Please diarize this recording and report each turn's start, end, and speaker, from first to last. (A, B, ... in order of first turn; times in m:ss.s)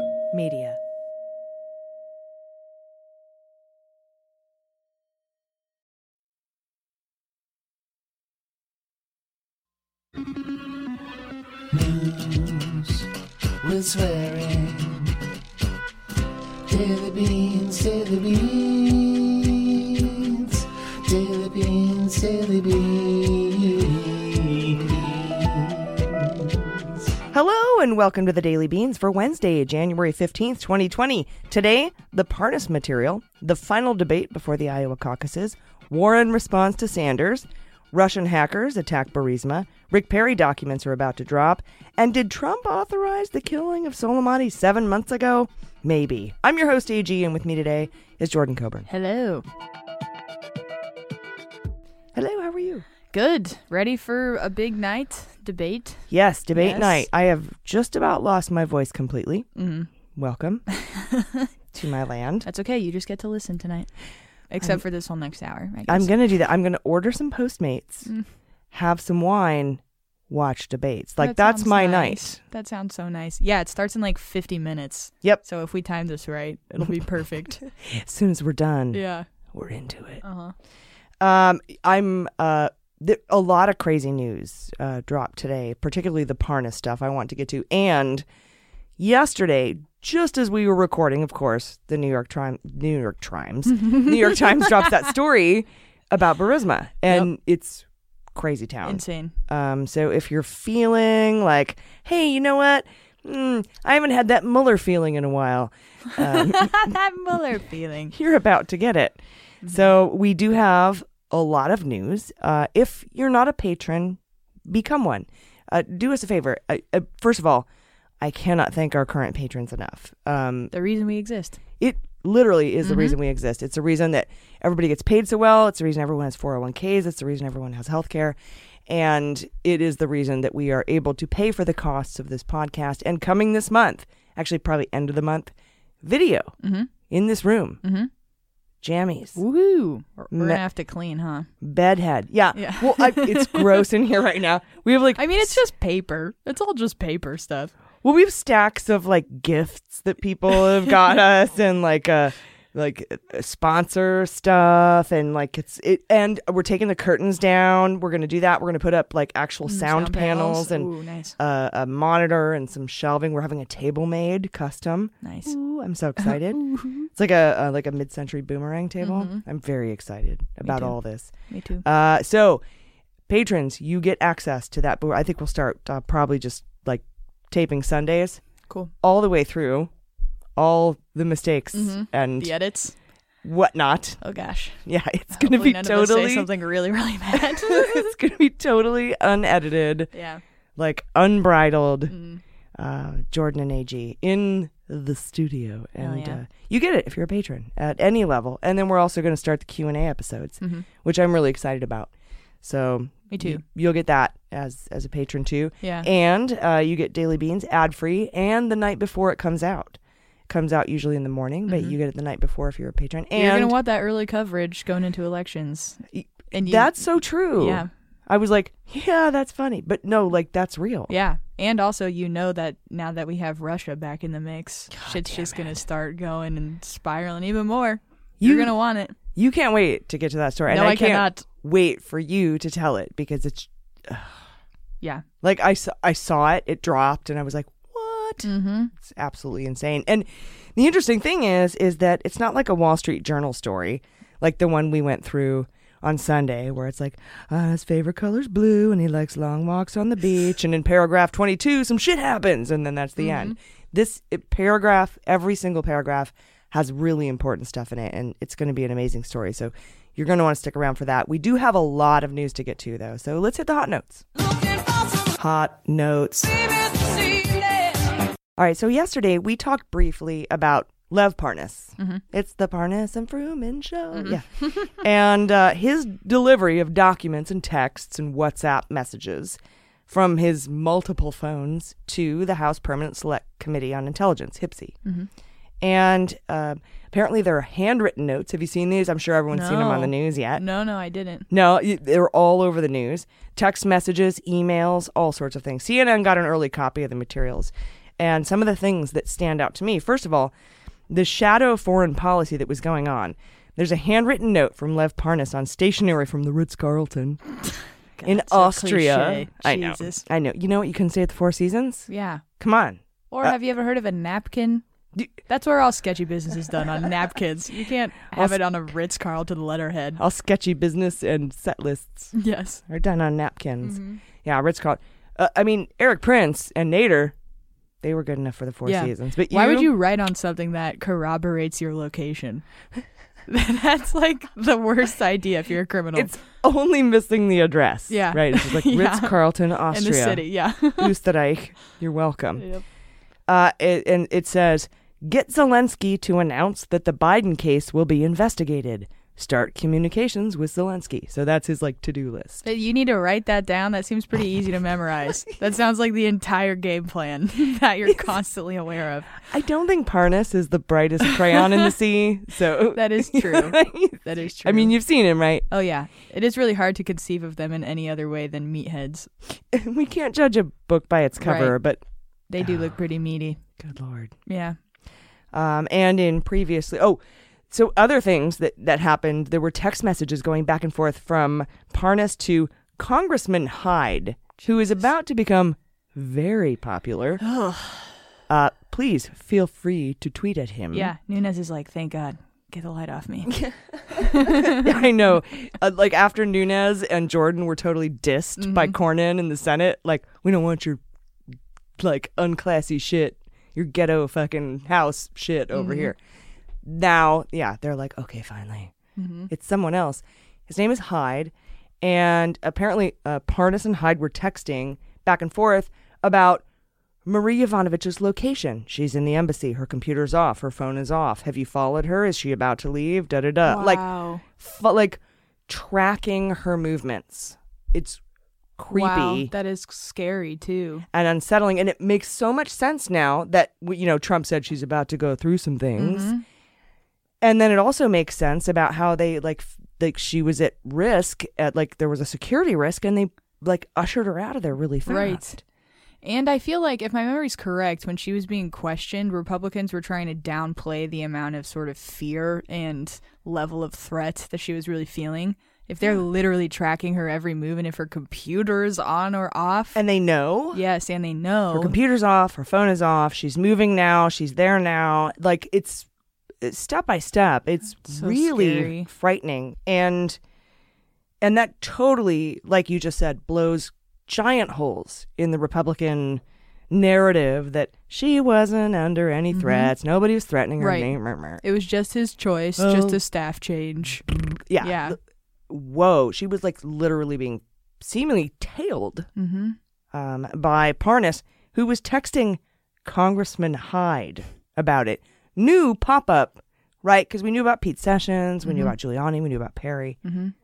0:00.3-0:00.8 A
0:11.7-0:13.0 B
0:13.6-0:15.1 B
0:16.7-0:25.8 B
0:27.3-0:48.9 A
0:48.9-0:49.4 C
0:52.1-0:52.8 A
0:53.1-0:57.0 C
0:56.1-0:59.5 A
0:59.6-0:59.9 C
1:00.1-1:00.6 A
1:00.8-1:01.5 C
1:01.7-1:02.5 A
1:02.4-1:03.9 C
1:04.5-1:06.1 C
1:05.9-1:08.1 A
1:08.7-1:12.4 A
1:11.2-1:17.7 C
1:17.8-1:20.2 A
1:18.9-1:19.3 C
1:20.2-1:20.5 C
1:21.2-1:28.2 A
1:29.0-1:46.9 A
1:38.8-1:39.3 C
1:46.2-1:48.1 C
1:48.1-1:57.7 A
1:58.2-2:00.7 A
2:00.7-2:01.6 C
2:01.8-2:08.4 A
2:02.8-2:03.1 C
2:08.9-2:16.6 A
2:16.6-2:16.9 C
2:17.1-2:17.8 A
2:17.8-2:18.1 C
2:18.8-2:19.4 A
2:19.4-2:21.5 C
2:20.3-2:20.6 A
2:21.6-2:25.6 A
2:22.5-2:23.8 C
2:25.2-2:27.7 C
2:28.0-2:51.3 A
2:39.6-2:41.3 C
2:45.2-2:45.5 C
2:46.2-2:47.1 C
2:49.0-2:49.4 C
2:50.6-2:51.8 C
2:51.8-2:52.6 A
2:53.3-2:58.4 A
2:59.0-2:59.9 A
3:00.6-3:02.5 A
3:01.7-3:02.9 C
3:03.4-3:04.2 A
3:04.2-3:08.1 C
3:04.8-3:06.5 A
3:07.4-3:10.1 A
3:10.1-3:10.4 C
3:10.8-3:12.2 A
3:12.1-3:12.4 C
3:12.8-3:22.1 A
3:16.0-3:16.4 C
3:20.6-3:20.8 C
3:22.6-3:30.0 A
3:23.3-3:23.6 C
3:25.8-3:26.1 C
3:30.5-3:33.7 A
3:31.7-3:31.9 C
3:33.3-3:37.9 C
3:36.1-3:41.1 A
3:41.1-3:49.2 C
3:44.9-3:45.8 A
3:48.4-3:48.7 A
3:49.3-3:54.4 A
3:50.7-3:51.4 C
3:55.4-4:24.3 A
3:58.4-3:58.9 C
4:13.2-4:13.5 C
4:25.2-4:27.3 A
4:28.6-4:39.6 A
4:40.1-4:45.0 A
4:45.0-4:45.3 C
4:45.8-4:50.6 A
4:49.5-4:51.5 C
4:51.5-5:00.5 A
5:01.1-5:07.6 A
5:08.2-5:10.2 C
5:08.2-5:13.5 A
5:12.1-5:12.4 C
5:13.3-5:14.8 C
5:15.5-5:20.2 C
5:18.3-5:18.6 A
5:20.2-5:22.3 A
5:22.3-5:22.8 C
5:22.9-5:27.3 A
5:23.8-5:24.2 C
5:28.0-5:29.9 A
5:28.8-5:32.6 C
5:33.5-5:36.3 C
5:36.1-5:42.7 A
5:38.1-5:41.2 C
5:42.6-5:42.8 C
5:43.5-5:52.6 A
5:52.6-5:59.3 C
5:59.4-6:05.6 A
6:02.9-6:04.9 C
6:05.7-6:09.3 C
6:09.7-6:12.0 A
6:11.4-6:11.8 C
6:12.5-6:13.6 C
6:13.8-6:14.3 A
6:14.4-6:14.8 C
6:15.5-6:27.4 A
6:27.4-6:28.1 C
6:28.5-6:31.1 A
6:30.9-6:35.0 C
6:34.1-6:41.0 A
6:38.6-6:39.0 C
6:42.0-6:46.2 A
6:45.7-6:46.1 C
6:46.8-6:48.9 A
6:49.2-6:49.5 C
6:49.5-6:56.6 A
6:57.2-7:08.2 A
7:03.6-7:04.4 C
7:08.8-7:09.5 A
7:08.9-7:11.1 C
7:11.1-7:16.3 A
7:16.0-7:16.4 C
7:17.4-7:25.6 A
7:25.0-7:25.6 C
7:26.2-7:40.0 C
7:39.9-7:40.8 A
7:40.7-7:42.0 C
7:41.7-7:46.1 A
7:46.6-7:50.4 A
7:48.0-7:49.1 C
7:51.4-8:01.6 A
7:59.5-7:59.9 C
8:00.8-8:04.2 C
8:02.8-8:03.2 A
8:04.3-8:05.2 A
8:04.8-8:05.2 C
8:05.7-8:09.3 A
8:09.4-8:09.8 C
8:10.1-8:20.2 A
8:18.6-8:18.9 C
8:20.2-8:20.5 C